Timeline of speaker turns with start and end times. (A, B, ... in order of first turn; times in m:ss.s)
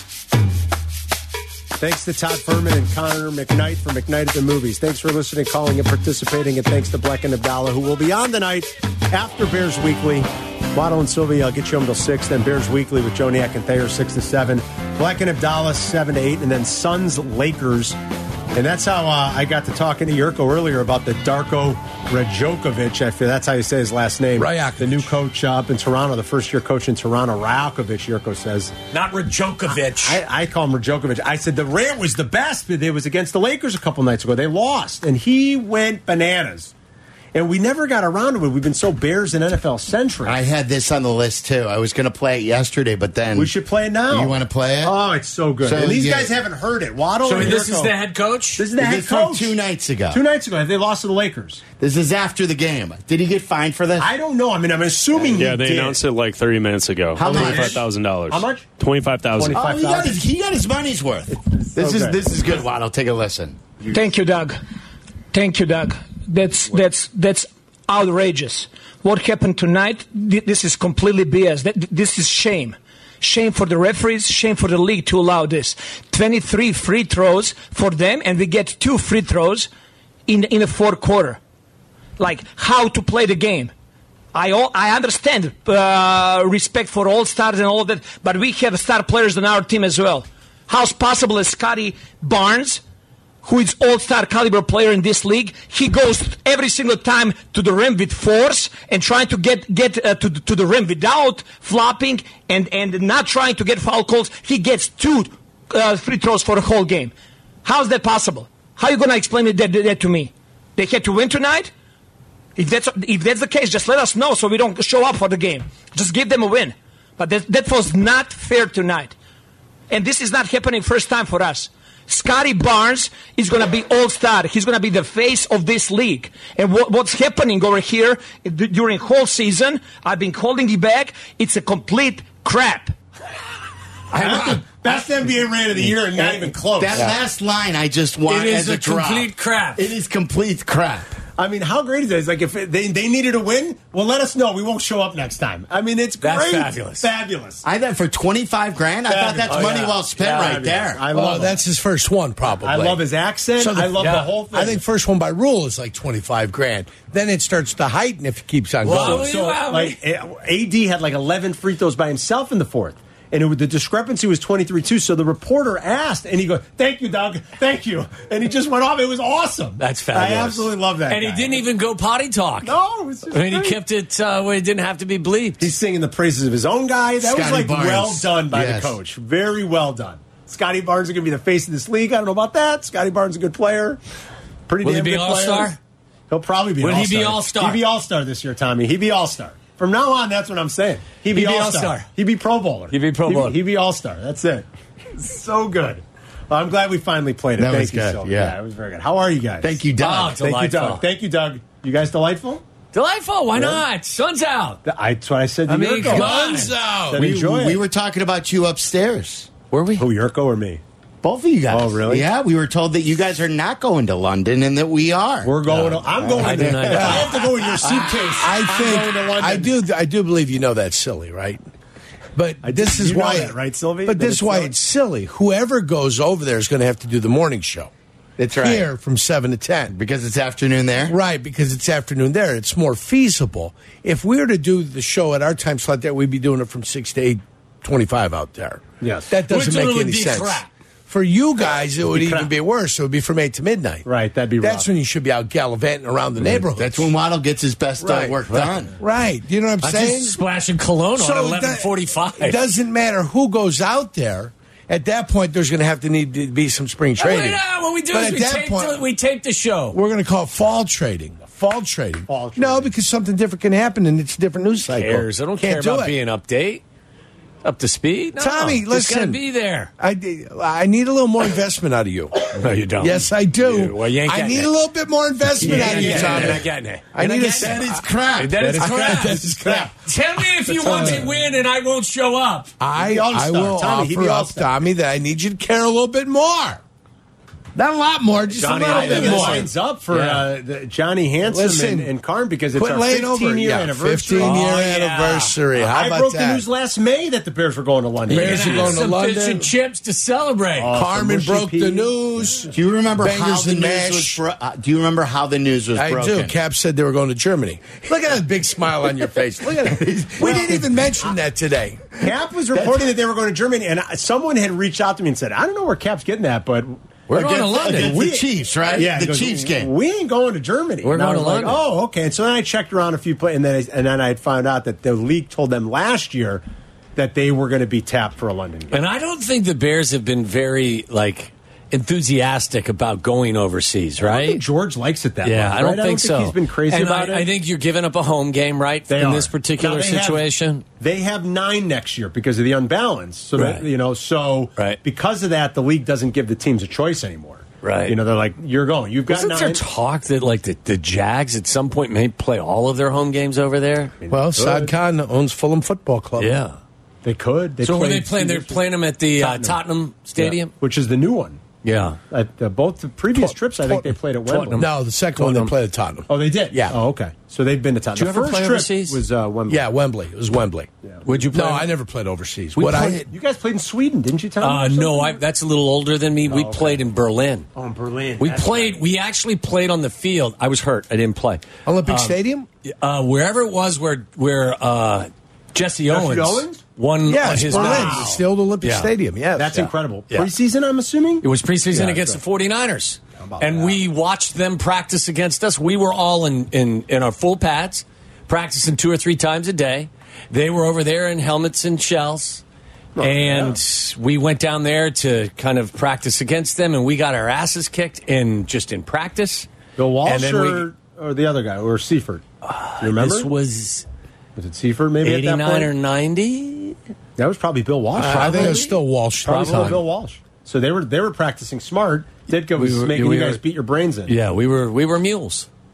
0:01.8-0:18.0 A
0:18.5-0:28.7 A
0:24.4-0:25.1 B
0:28.9-0:30.2 C
0:29.8-0:36.7 A
0:37.3-0:40.4 A
0:40.2-0:43.5 D
0:43.3-0:48.0 A
0:44.1-0:45.0 D
0:45.6-0:46.3 D
0:47.2-0:48.6 C
0:48.6-0:49.6 A
0:48.8-0:50.2 D
0:50.1-0:51.6 A
0:51.8-0:54.1 D
0:54.0-0:56.0 A
0:55.3-0:59.6 E
0:57.1-0:57.8 D
0:57.2-0:58.7 A
0:59.3-1:00.2 A
0:59.5-1:03.6 D
1:01.3-1:02.5 A
1:03.9-1:04.6 F
1:05.3-1:19.7 F
1:20.3-1:21.4 F
1:22.2-1:23.7 F
1:24.3-1:32.8 F
1:33.4-1:51.7 F
1:52.6-1:59.1 F
1:59.9-2:12.9 F
2:14.1-2:14.6 C
2:14.1-2:17.1 A
2:16.2-2:21.1 D
2:18.3-2:19.9 C
2:21.4-2:27.6 A
2:26.2-2:27.1 C
2:27.6-2:31.4 D
2:29.0-2:31.6 A
2:29.5-2:30.5 C
2:31.1-2:33.0 B
2:32.6-2:34.8 A
2:33.6-2:39.3 B
2:38.8-2:40.0 C
2:38.9-2:51.6 A
2:49.8-2:52.8 C
2:52.6-2:53.8 A
2:53.3-2:55.7 C
2:55.6-3:04.0 A
2:57.2-2:58.9 D
3:04.7-3:05.8 A
3:04.8-3:05.8 C
3:06.3-3:19.8 A
3:06.8-3:07.8 C
3:11.3-3:12.1 C
3:12.9-3:13.6 C
3:17.6-3:18.6 D
3:19.6-3:20.8 D
3:20.0-3:21.0 C
3:20.5-3:22.6 A
3:22.9-3:24.8 C
3:24.8-3:26.3 A
3:25.7-3:26.7 C
3:26.0-3:27.2 B
3:27.1-3:27.8 A
3:27.1-3:29.5 D
3:29.7-3:30.0 C
3:30.0-3:30.8 A
3:31.2-3:35.5 D
3:31.7-3:32.3 A
3:35.4-3:39.7 A
3:36.1-3:36.7 D
3:36.4-3:38.1 C
3:36.8-3:41.6 B
3:42.3-3:47.9 B
3:42.6-3:44.7 A
3:48.4-3:48.9 D
3:48.6-3:50.0 B
3:49.9-3:51.2 D
3:51.1-4:04.0 B
3:59.0-3:59.3 A
3:59.4-4:00.7 C
4:02.1-4:02.5 A
4:04.0-4:04.9 A
4:04.6-4:07.1 B
4:06.5-4:08.9 D
4:08.0-4:10.4 B
4:09.8-4:12.6 C
4:11.2-4:19.0 B
4:17.2-4:20.0 C
4:19.9-4:26.2 B
4:22.3-4:22.9 A
4:24.9-4:26.8 C
4:27.6-4:29.9 C
4:28.4-4:29.4 B
4:30.0-4:38.0 B
4:32.5-4:34.7 C
4:35.6-4:42.7 C
4:35.6-4:36.7 A
4:35.6-4:36.6 D
4:37.5-4:38.8 D
4:38.6-4:39.6 A
4:38.8-4:39.9 B
4:39.6-4:39.9 D
4:40.8-4:41.4 A
4:40.8-4:41.1 B
4:42.8-4:46.8 B
4:42.9-4:44.7 A
4:47.7-4:49.7 B
4:48.6-4:50.4 C
4:48.6-4:54.7 A
4:51.4-4:52.1 B
4:52.7-4:56.6 B
4:54.4-4:55.5 C
4:55.7-4:59.0 A
4:58.2-4:59.7 B
4:58.3-5:00.9 C
5:00.8-5:02.7 A
5:00.9-5:04.4 B
5:02.7-5:06.5 D
5:05.9-5:12.3 B
5:09.9-5:10.9 D
5:10.4-5:10.8 A
5:12.2-5:17.0 A
5:17.3-5:18.1 C
5:17.3-5:19.9 D
5:17.7-5:26.6 A
5:21.0-5:21.8 C
5:27.2-5:29.0 A
5:28.9-5:34.6 C
5:34.2-5:37.5 A
5:35.4-5:40.8 C
5:39.1-5:40.4 A
5:41.0-5:49.8 A
5:43.6-5:43.8 C
5:47.8-5:48.2 C
5:49.3-5:54.1 C
5:54.2-5:54.9 A
5:54.3-5:56.6 B
5:56.4-5:56.8 C
5:57.2-5:59.8 A
5:57.8-6:00.7 C
6:00.4-6:01.6 A
6:01.8-6:02.2 C
6:02.3-6:04.8 A
6:03.3-6:04.2 B
6:04.5-6:05.7 C
6:04.7-6:07.0 B
6:06.3-6:09.8 A
6:08.1-6:09.2 C
6:09.7-6:10.9 B
6:11.2-6:11.9 C
6:11.5-6:13.3 B
6:12.8-6:15.4 A
6:14.6-6:17.7 C
6:16.5-6:17.1 A
6:17.7-6:19.0 A
6:18.4-6:22.3 C
6:21.8-6:22.7 B
6:22.8-6:29.1 C
6:26.1-6:26.8 A
6:27.2-6:29.9 B
6:27.5-6:28.4 A
6:29.5-6:32.4 A
6:31.4-6:42.6 C
6:33.4-6:34.0 A
6:43.2-6:43.8 A
6:43.2-6:49.7 C
6:50.0-6:52.4 A
6:50.2-6:50.9 C
6:52.6-6:54.0 C
6:53.0-6:53.5 A
6:54.6-6:55.9 A
6:55.2-6:57.0 C
6:57.4-6:58.9 A
6:58.2-7:00.0 B
6:58.2-7:00.0 C
6:59.5-7:04.3 A
7:02.6-7:03.6 C
7:04.3-7:05.7 C